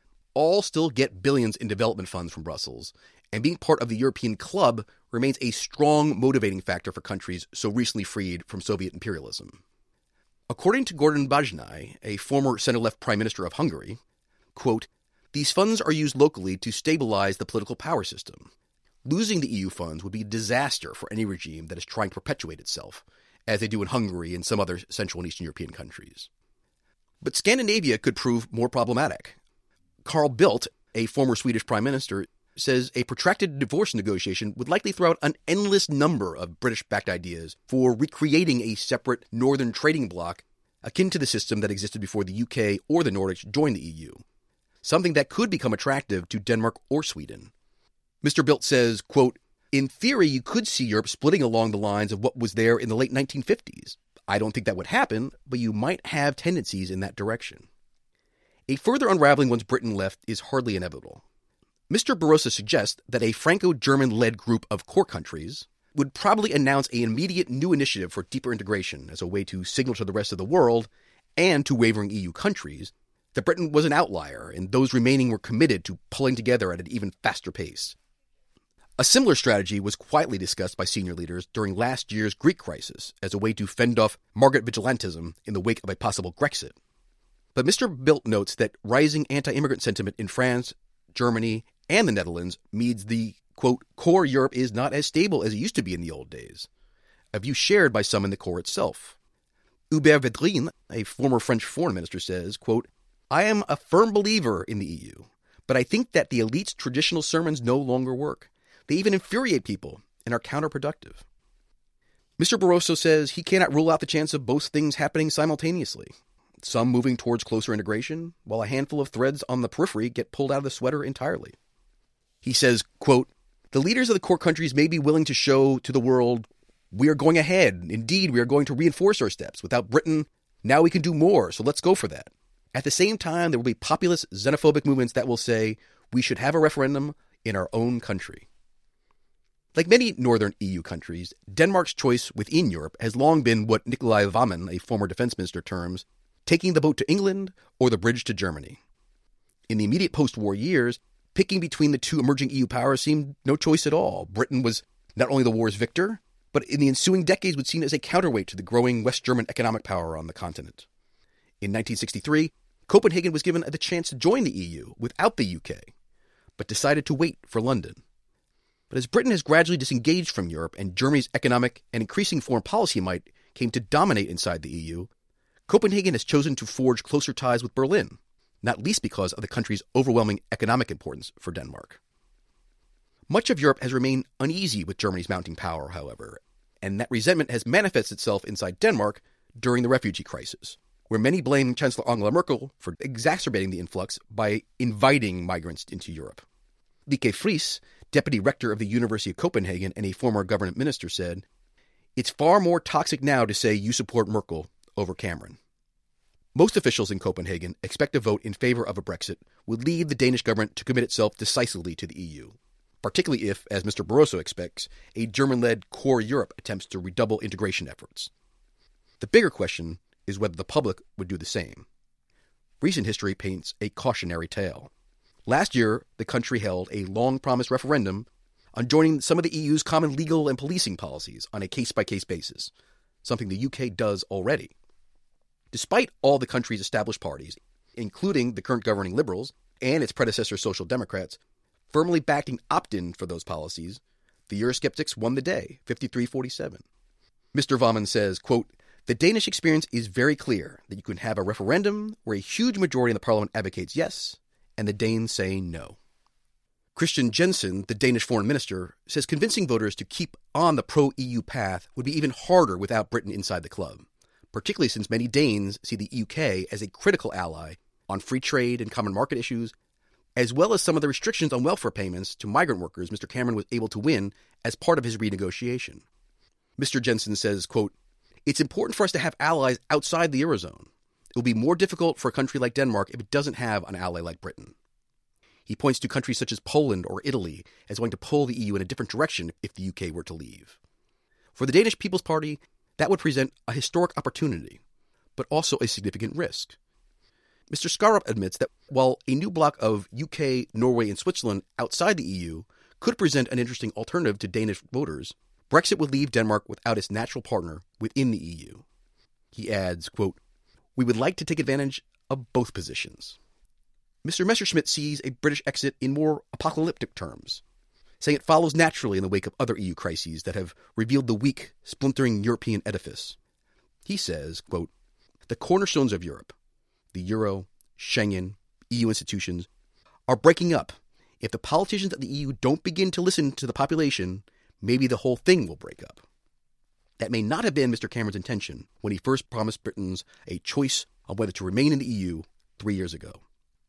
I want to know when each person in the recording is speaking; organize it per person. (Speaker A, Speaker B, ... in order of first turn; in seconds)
Speaker A: 0.3-9.6, 10.5-14.0, 14.5-18.5, 19.0-26.3, 27.2-29.4, 30.0-44.2, 44.8-47.5, 48.2-57.7, 58.7-61.2, 61.9-78.0, 79.0-86.7, 87.5-96.7, 97.3-99.2, 99.9-111.2, 112.4-121.5, 122.4-138.4, 139.7-148.8, 149.7-160.9, 161.6-165.9, 166.6-168.0, 168.9-175.1, 175.7-182.0, 183.3-196.4, 197.1-201.4, 202.2-205.6, 206.5-218.3, 219.2-221.8, 222.8-224.9, 225.4-232.7, 233.2-234.7, 235.7-241.4, 241.9-246.8, 247.5-256.0, 256.9-269.7, 270.4-276.0, 276.8-277.9, 278.4-284.7, 285.7-290.8, 291.5-294.8, 295.4-296.8, 297.7-308.8, 309.5-310.4, 310.9-313.4, 314.2-317.6, 318.2-323.4, 324.0-324.9, 325.5-326.5, 327.1-329.7, 330.3-336.2, 337.2-343.4